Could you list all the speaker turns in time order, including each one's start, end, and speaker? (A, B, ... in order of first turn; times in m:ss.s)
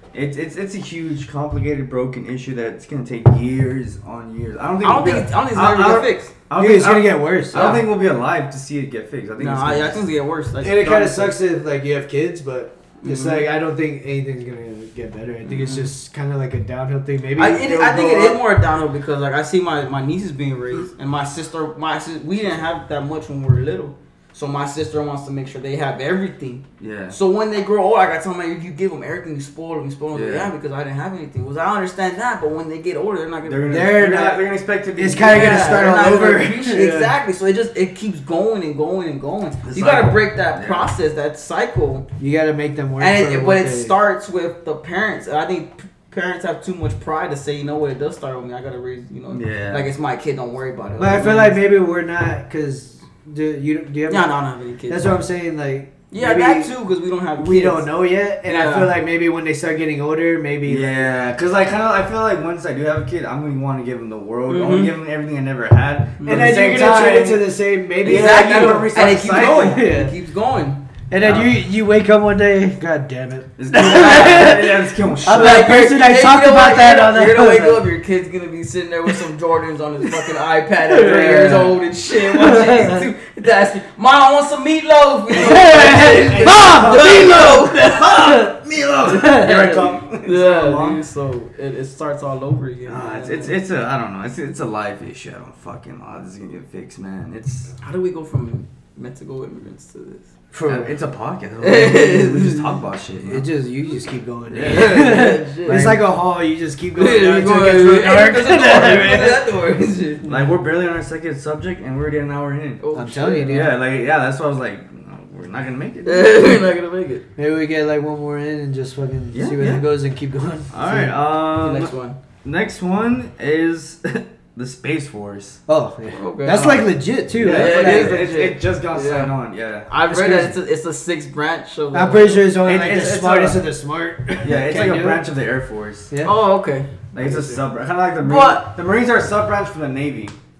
0:00.1-0:10.0 A
0:04.8-0:06.3 B
0:06.5-0:07.8 C
0:07.5-0:07.9 B
0:09.4-0:11.4 B
0:10.6-0:18.4 C
0:13.0-0:13.5 B
0:15.4-0:15.9 B
0:17.4-0:33.8 B
0:26.8-0:27.2 A
0:30.1-0:30.5 A
0:33.4-0:36.0 A
0:33.6-0:37.1 C
0:35.2-0:42.0 B
0:39.6-0:40.9 A
0:42.2-0:43.9 C
0:43.0-0:51.6 B
0:49.3-0:49.8 A
0:51.0-0:54.3 C
0:54.1-0:55.2 B
0:54.9-0:56.7 C
0:56.1-0:57.9 B
0:57.4-1:01.0 C
0:58.4-0:58.9 B
1:00.6-1:07.5 A
1:04.5-1:05.0 B
1:06.2-1:06.8 B
1:06.2-1:10.1 C
1:08.0-1:09.9 A
1:08.0-1:10.8 B
1:11.1-1:17.8 C
1:11.2-1:11.6 A
1:13.6-1:15.7 A
1:13.7-1:14.5 B
1:15.3-1:28.3 B
1:20.8-1:23.1 C
1:25.3-1:28.5 C
1:26.4-1:31.0 A
1:29.0-1:33.5 B
1:29.0-1:29.8 C
1:32.8-1:37.7 A
1:37.8-1:40.2 B
1:40.5-1:41.0 C
1:40.6-1:43.5 A
1:41.6-1:42.7 B
1:43.2-1:49.5 C
1:44.5-1:46.0 A
1:44.6-1:46.0 B
1:47.0-1:50.2 B
1:50.2-1:50.5 C
1:50.2-1:52.8 A
1:52.8-1:53.7 B
1:52.9-1:53.8 C
1:53.4-1:56.4 A
1:56.0-1:57.2 B
1:57.4-2:01.2 C
1:59.3-1:59.9 A
2:00.7-2:01.9 A
2:01.5-2:02.2 B
2:02.4-2:05.6 A
2:05.7-2:08.3 C
2:06.1-2:06.9 B
2:06.5-2:09.9 A
2:07.4-2:09.3 B
2:09.9-2:12.5 B
2:10.1-2:10.6 C
2:11.9-2:15.2 C
2:12.6-2:13.6 A
2:14.4-2:16.1 A
2:16.1-2:16.4 C
2:16.2-2:16.9 B
2:17.1-2:17.6 C
2:17.1-2:20.4 A
2:18.2-2:18.7 B